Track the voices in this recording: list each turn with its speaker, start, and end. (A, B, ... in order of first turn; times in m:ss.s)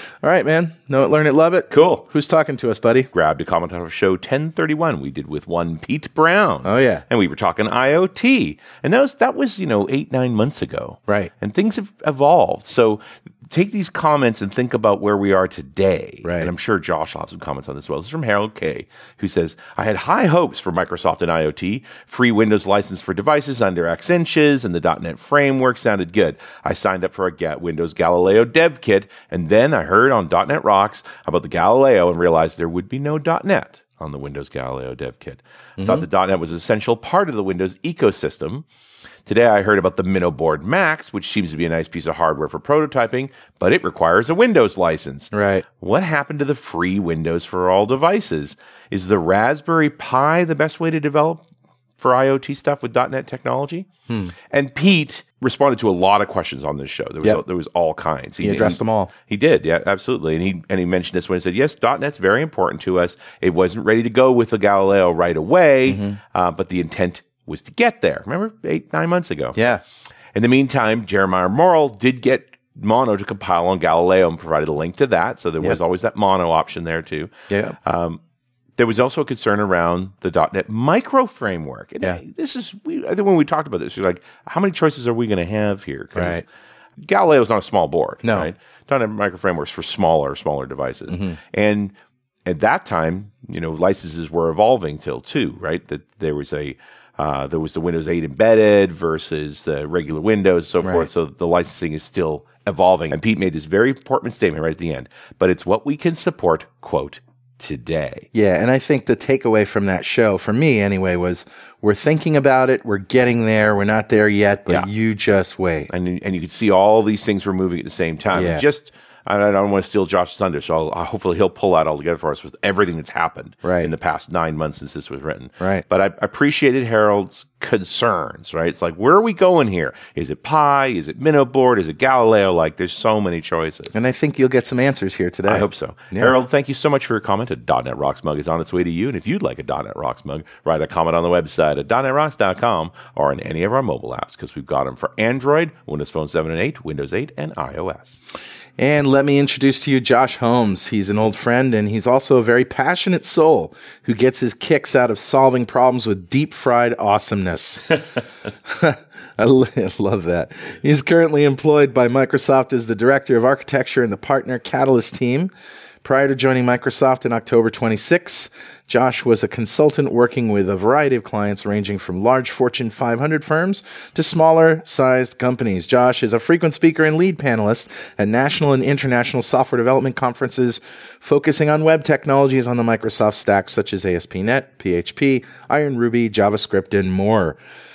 0:00.2-0:03.1 A
0:01.7-0:02.0 B
0:03.1-0:38.6 B
0:06.6-0:07.0 A
0:16.2-0:16.5 A
0:35.8-0:36.1 A
0:39.3-0:51.4 B
0:45.3-0:45.6 A
0:52.0-0:53.9 B
0:54.5-1:09.7 B
0:58.4-0:59.1 A
1:05.9-1:06.2 A
1:09.6-1:09.8 A
1:10.3-1:17.3 B
1:17.5-1:17.8 A
1:17.8-1:18.2 B
1:18.8-1:26.4 B
1:26.2-1:26.4 A
1:27.0-1:31.9 B
1:28.2-1:28.5 A
1:31.1-1:31.4 A
1:32.5-1:48.3 B
1:40.8-1:41.1 A
1:48.3-1:55.9 A
1:55.9-2:13.9 B
1:58.3-1:58.6 A
2:03.6-2:03.9 A
2:13.9-2:16.4 A
2:15.5-2:28.2 B
2:28.8-2:38.0 A
2:38.6-2:45.5 A
2:46.0-3:07.6 A